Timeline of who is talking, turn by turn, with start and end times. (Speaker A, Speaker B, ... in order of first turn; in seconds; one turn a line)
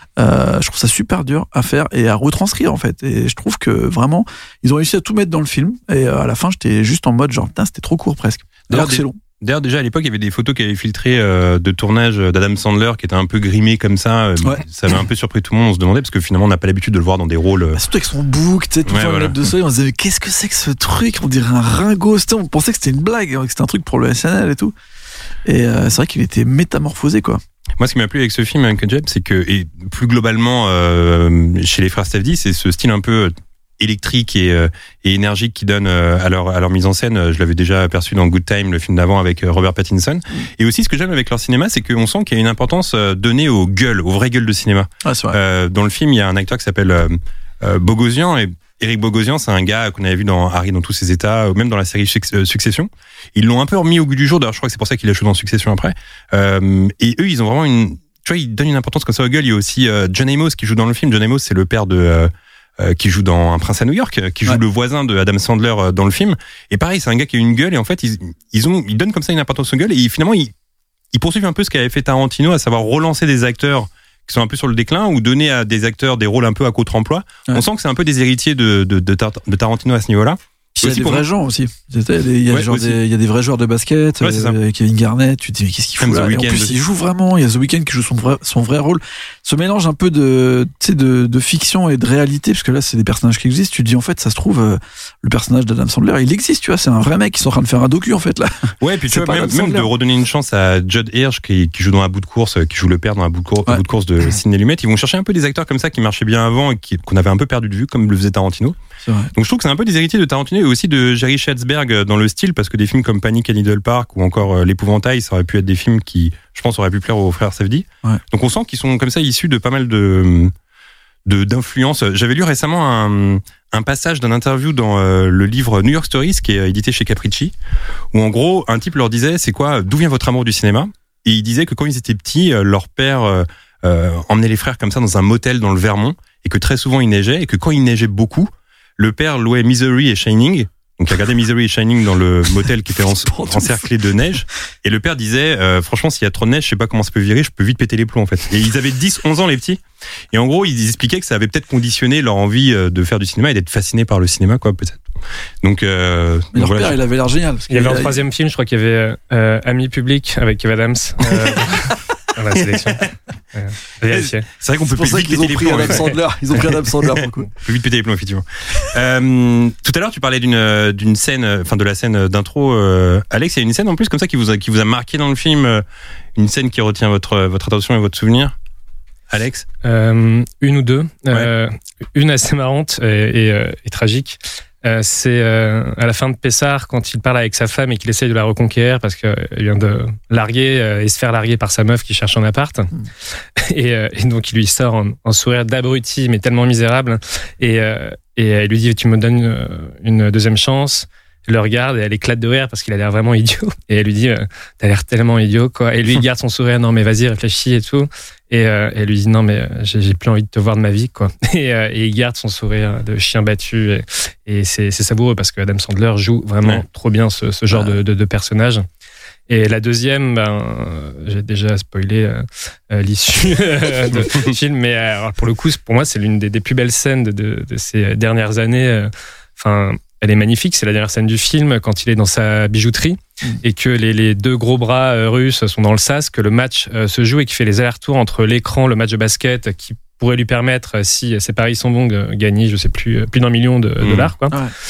Speaker A: 0.2-9.2
Speaker B: 8.7-17.8
Speaker A: 17.8-24.7
Speaker B: 18.9-19.4
Speaker A: 25.4-27.4
Speaker B: 27.8-70.5
Speaker A: 45.0-45.4
Speaker B: 71.1-81.3
Speaker A: 80.8-99.9
Speaker B: 82.5-83.0
Speaker B: 84.2-84.6
Speaker B: 86.0-86.8
Speaker B: 98.8-108.8
Speaker A: 109.0-109.3
Speaker B: 109.3-120.5
Speaker B: 121.3-127.5
Speaker B: 128.1-149.8
Speaker A: 143.3-143.8
Speaker B: 150.3-155.0
Speaker B: 155.6-157.0
Speaker A: 156.5-158.2
Speaker C: 157.7-164.4
Speaker B: 162.6-163.0
Speaker B: 164.1-175.8
Speaker A: 164.9-167.5
Speaker B: 176.4-178.6
Speaker B: 179.3-179.7
Speaker C: 179.8-192.9
Speaker C: 193.6-218.9
Speaker C: 219.5-244.6
Speaker B: 224.2-224.5
Speaker B: 244.0-244.3